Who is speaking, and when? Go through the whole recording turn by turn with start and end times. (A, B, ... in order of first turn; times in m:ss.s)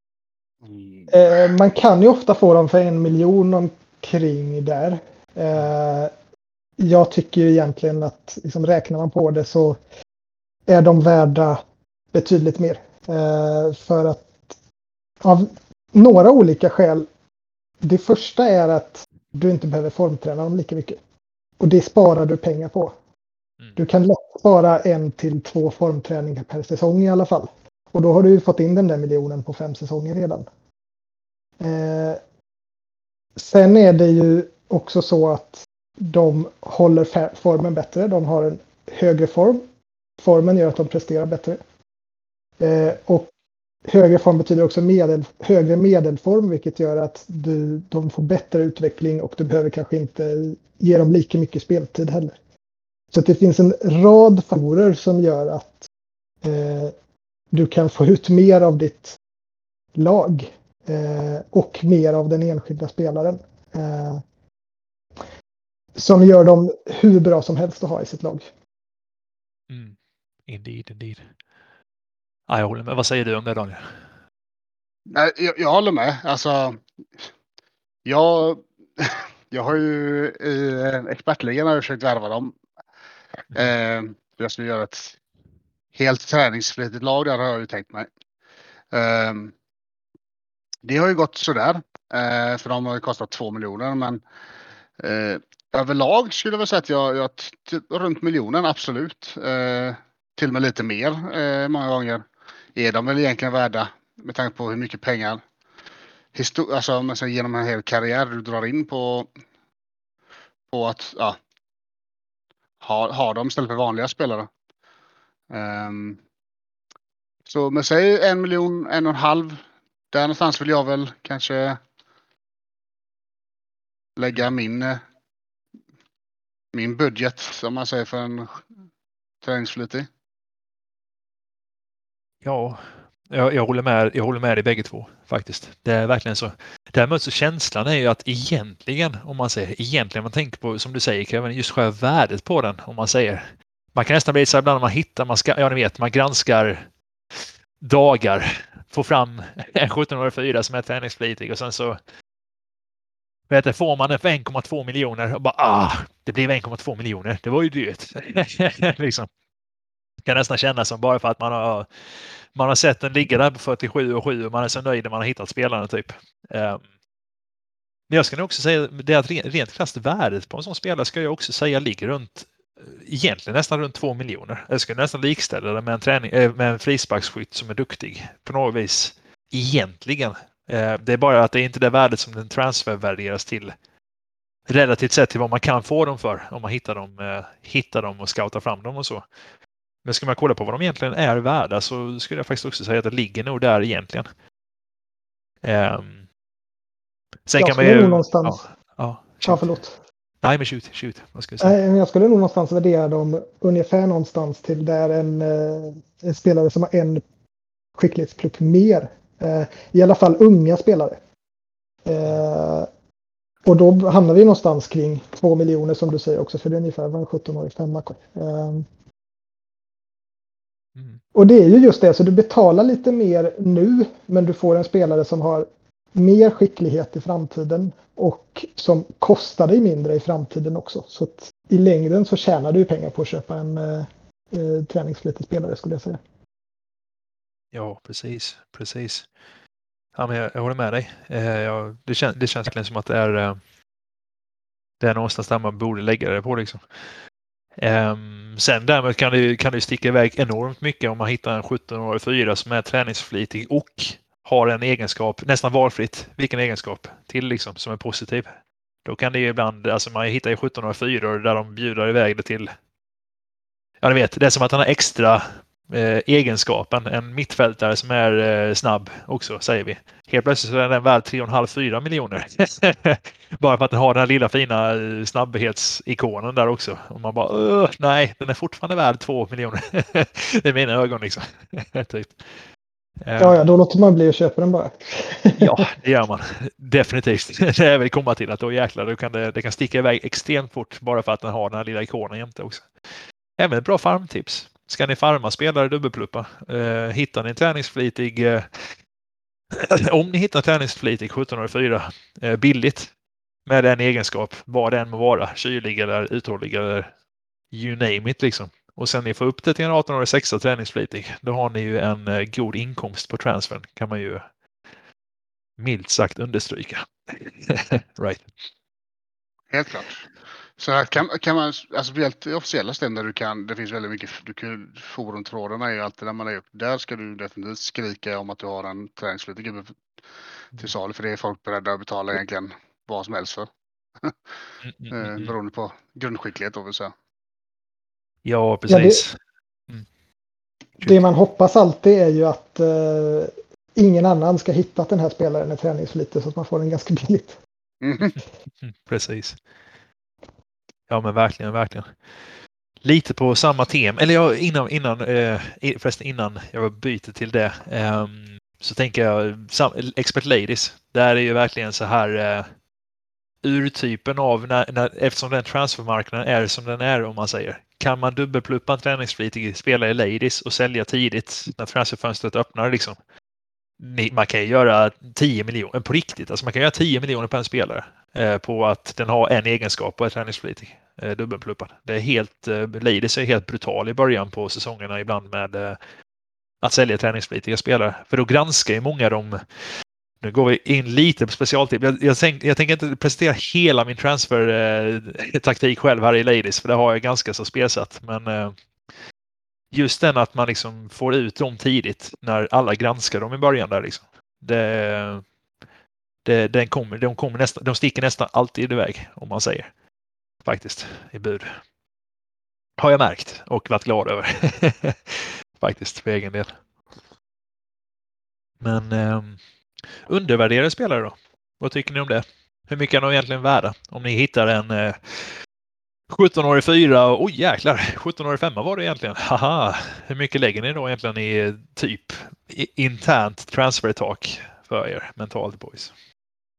0:00.6-0:01.1 A
0:01.1-0:06.1 B
0:06.8-0:09.8 B
0:10.7-0:11.6 B
0:12.1-0:14.5 B
0:15.2-0:17.1 B
0:17.8-0:21.0 B
0:21.6-0:23.0 B
0:23.8-0:30.5 B
0:31.6-0:32.2 B
0:33.4-0:39.6 B
0:40.2-0:41.6 B
0:42.6-0:43.3 B
0:43.9-0:52.4 B
0:53.1-0:55.9 B
0:56.4-0:56.9 B
0:57.5-0:59.2 B
0:59.9-1:04.2 B
1:06.0-1:08.5 B
1:09.7-1:10.0 C
1:10.5-1:11.3 C
1:12.5-1:13.9 C
1:15.1-1:17.2 A
1:18.0-1:22.6 A
1:23.5-1:25.2 A
1:25.9-1:28.1 A
1:28.9-1:29.5 A
1:30.8-1:34.2 A
1:35.0-1:42.2 A
1:42.8-1:45.4 A
1:46.3-1:49.3 A
1:50.7-1:51.4 A
1:52.8-1:54.5 A
1:55.5-1:56.2 A
1:57.5-1:59.6 A
2:00.1-2:01.8 A
2:04.2-2:05.0 A
2:06.7-2:08.6 A
2:09.4-2:10.1 A
2:12.4-2:32.0 C
2:33.5-2:39.3 C
2:40.2-2:46.8 C
2:48.1-3:03.7 C
3:04.7-3:09.2 C
3:10.0-3:14.3 C
3:15.6-3:16.3 C
3:17.5-3:19.8 C
3:17.6-3:18.6 B
3:19.4-3:19.9 B
3:20.4-3:21.7 C
3:21.6-3:27.2 B
3:28.0-3:31.2 B
3:32.0-3:32.9 B
3:33.6-3:38.9 B
3:41.0-3:41.2 C
3:41.3-3:56.2 B
3:57.7-3:59.3 C
4:00.2-4:03.6 C
4:05.0-4:06.8 C
4:07.8-4:18.5 C
4:19.0-4:22.7 C
4:24.0-4:42.5 C
4:43.2-4:43.6 C
4:43.4-4:45.8 B
4:45.6-4:52.9 C
4:53.6-4:59.0 C
4:59.7-5:03.1 C
5:03.6-5:07.1 C
5:07.7-5:14.5 C
5:15.8-5:18.4 C
5:19.7-5:20.3 A
5:20.8-5:29.9 A
5:30.8-5:33.7 A
5:34.8-5:35.5 C
5:35.1-5:37.1 A
5:38.4-5:39.4 C
5:38.9-5:39.2 B
5:41.0-5:47.6 B
5:48.0-5:48.3 A
5:48.3-5:49.6 C
5:51.1-5:52.1 C
5:53.0-6:02.7 C
6:03.6-6:13.2 C
6:14.0-6:26.0 C
6:26.8-6:29.6 C
6:30.4-6:38.7 C
6:39.9-6:45.4 C
6:46.4-6:49.9 C
6:50.6-6:51.8 C
6:53.0-6:56.8 C
6:58.8-6:59.6 C
7:00.3-7:05.6 C
7:06.3-7:16.1 C